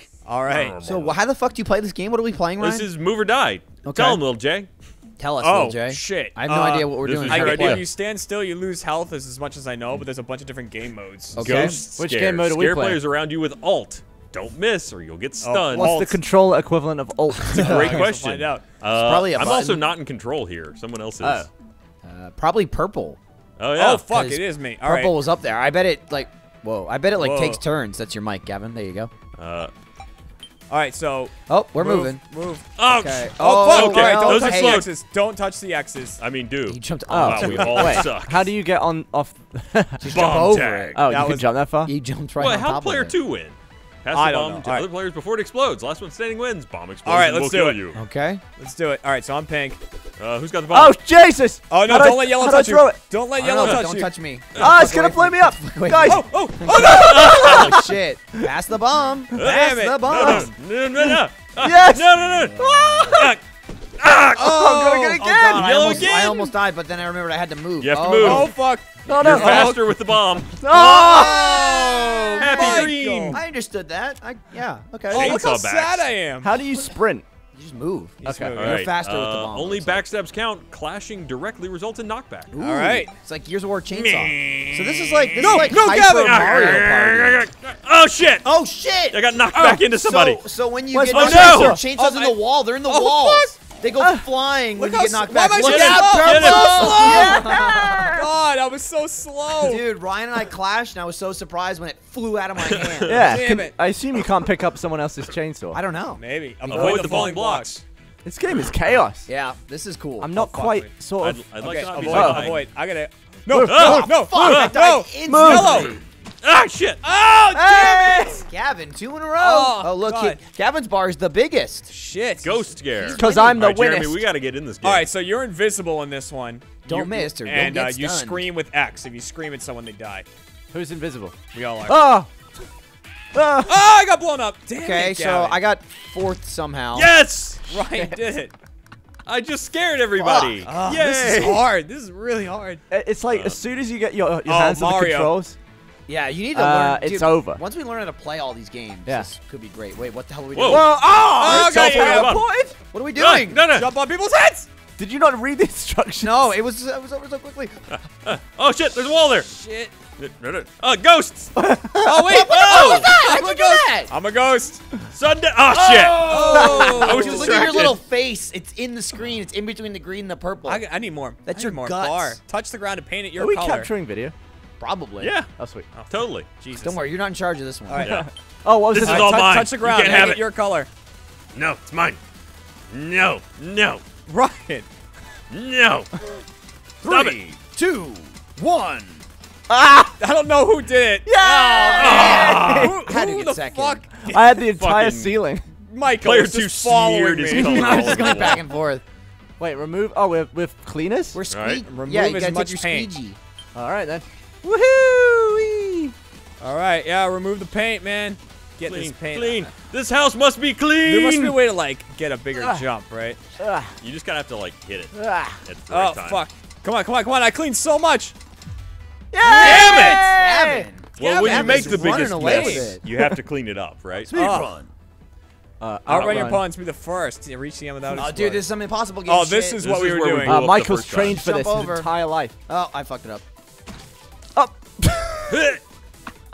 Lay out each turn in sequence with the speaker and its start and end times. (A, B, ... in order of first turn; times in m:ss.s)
0:00.2-0:00.8 A
0:00.5-0:01.2 B
0:00.8-0:02.9 C
0:02.6-0:04.7 B
0:03.8-0:04.2 C
0:05.2-0:07.8 C
0:05.4-0:11.6 A
0:07.0-0:07.9 B
0:11.3-0:11.8 C
0:11.4-0:16.0 B
0:11.5-0:13.0 D
0:15.4-0:16.2 A
0:15.7-0:17.9 D
0:17.5-0:21.5 B
0:17.5-0:18.0 C
0:17.6-0:18.7 A
0:18.9-0:19.9 C
0:21.2-0:21.5 D
0:22.0-0:23.2 C
0:23.6-0:24.1 B
0:23.8-0:25.2 A
0:24.1-0:29.1 C
0:27.2-0:27.6 A
0:29.4-0:29.7 B
0:30.7-0:32.7 A
0:31.5-0:32.2 C
0:32.8-0:34.9 B
0:32.8-0:34.9 C
0:33.4-0:36.2 A
0:36.2-0:38.5 B
0:36.7-0:38.1 C
0:37.1-0:41.9 D
0:40.0-0:41.0 C
0:40.1-0:41.0 B
0:41.0-0:41.4 A
0:41.8-0:43.2 C
0:42.4-0:48.0 B
0:44.1-0:44.9 A
0:47.0-0:47.8 A
0:47.9-0:48.4 C
0:48.6-0:49.8 A
0:50.2-0:51.0 B
0:50.7-0:53.0 D
0:51.7-0:54.1 A
0:53.4-1:00.5 C
0:53.6-0:53.8 B
0:54.5-0:54.8 B
0:54.6-0:56.3 D
0:56.0-0:57.7 A
0:56.7-0:57.8 B
0:57.1-0:57.8 D
0:59.3-1:03.4 B
0:59.4-1:00.1 A
1:00.1-1:00.5 D
1:01.0-1:03.4 D
1:04.0-1:04.7 B
1:04.4-1:05.1 A
1:04.4-1:05.7 D
1:05.0-1:08.5 C
1:05.5-1:06.4 B
1:05.9-1:06.5 A
1:07.8-1:08.5 B
1:08.2-1:09.8 A
1:09.0-1:09.8 D
1:09.0-1:11.7 B
1:10.6-1:11.6 D
1:10.8-1:15.4 C
1:11.1-1:13.4 A
1:12.4-1:13.4 B
1:15.1-1:16.5 A
1:15.1-1:16.1 B
1:16.4-1:17.3 D
1:17.5-1:20.0 C
1:18.2-1:18.6 D
1:18.2-1:18.8 A
1:18.5-1:22.5 B
1:22.5-1:27.4 C
1:22.6-1:23.1 A
1:23.9-1:28.5 B
1:25.4-1:26.6 A
1:28.4-1:38.2 C
1:29.1-1:30.4 B
1:30.9-1:31.8 D
1:31.1-1:31.8 B
1:31.8-1:33.5 A
1:34.0-1:35.2 D
1:35.0-1:37.6 A
1:35.6-1:37.2 B
1:36.8-1:38.3 D
1:38.1-1:39.8 A
1:39.6-1:43.4 C
1:42.6-1:43.2 B
1:43.1-1:45.8 D
1:43.2-1:43.7 A
1:45.7-1:46.2 C
1:46.2-1:47.7 A
1:46.6-1:47.3 D
1:46.7-1:47.8 B
1:48.2-1:49.3 D
1:49.3-1:50.6 C
1:50.2-1:51.4 D
1:50.4-1:50.8 A
1:51.2-1:52.6 B
1:51.6-1:56.0 A
1:52.0-1:52.6 D
1:53.4-1:54.1 D
1:53.6-1:54.8 B
1:53.8-1:56.0 C
1:55.3-1:55.9 D
1:56.4-1:57.0 B
1:57.0-1:58.4 A
1:57.5-1:58.4 D
1:58.2-2:01.9 C
1:59.4-2:00.4 A
2:01.9-2:02.6 A
2:02.4-2:05.1 B
2:02.9-2:04.1 C
2:03.2-2:04.2 D
2:04.8-2:10.2 A
2:06.8-2:08.5 C
2:10.7-2:12.3 D
2:11.5-2:12.0 A
2:13.3-2:13.8 D
2:13.6-2:15.6 A
2:14.8-2:17.1 C
2:16.9-2:17.6 B
2:17.7-2:18.5 A
2:19.2-2:21.7 B
2:20.2-2:20.8 C
2:20.6-2:22.8 A
2:22.9-2:25.6 D
2:23.3-2:23.6 B
2:24.4-2:25.4 A
2:26.1-2:31.7 C
2:26.5-2:27.6 D
2:30.5-2:32.5 B
2:30.6-2:32.7 D
2:31.3-2:32.4 A
2:32.8-2:33.6 C
2:33.1-2:33.9 B
2:33.7-2:34.7 A
2:35.0-2:36.5 D
2:36.2-2:37.8 C
2:37.9-2:39.5 B
2:39.5-2:39.9 A
2:40.2-2:41.5 B
2:41.6-2:42.2 D
2:42.0-2:44.8 A
2:42.2-2:44.1 C
2:42.4-2:43.1 B
2:45.1-2:48.0 B
2:45.7-2:50.8 C
2:46.2-2:47.8 A
2:50.6-2:53.9 A
2:51.4-2:52.4 C
2:53.4-2:54.3 D
2:54.8-2:55.3 C
2:55.2-2:55.5 B
2:55.6-2:55.9 D
2:55.9-2:57.0 A
2:56.1-2:56.5 B
2:56.8-2:58.2 C
2:58.0-2:58.3 B
2:58.0-2:59.7 D
2:58.9-3:00.4 B
2:59.0-3:00.9 A
3:01.5-3:02.2 B
3:02.9-3:04.0 B
3:04.3-3:04.9 A
3:05.5-3:06.1 B
3:07.0-3:07.5 B
3:07.0-3:09.2 C
3:09.7-3:10.2 D
3:10.2-3:14.6 A
3:11.2-3:12.9 D
3:11.8-3:14.0 C
3:11.9-3:12.9 B
3:14.3-3:15.6 D
3:14.7-3:15.4 B
3:15.8-3:18.6 A
3:16.2-3:18.6 B
3:17.5-3:19.0 C
3:19.6-3:21.4 D
3:21.3-3:23.4 C
3:21.5-3:21.8 B
3:21.8-3:23.1 A
3:23.7-3:26.1 D
3:26.6-3:29.7 A
3:28.8-3:31.6 B
3:31.0-3:33.4 A
3:32.5-3:32.8 D
3:33.6-3:33.9 D
3:34.0-3:36.4 B
3:35.1-3:35.6 D
3:35.9-3:38.3 A
3:39.3-3:40.9 D
3:39.4-3:43.0 C
3:39.5-3:40.3 A
3:41.2-3:44.3 B
3:41.2-3:43.0 A
3:44.2-3:44.9 C
3:44.3-3:44.7 A
3:45.8-3:46.7 D
3:46.0-3:48.7 A
3:48.1-3:49.8 C
3:49.3-3:50.7 A
3:49.8-3:51.4 B
3:50.4-3:52.5 D
3:51.1-3:52.1 C
3:52.7-3:53.4 C
3:54.5-3:55.7 D
3:55.5-3:55.8 B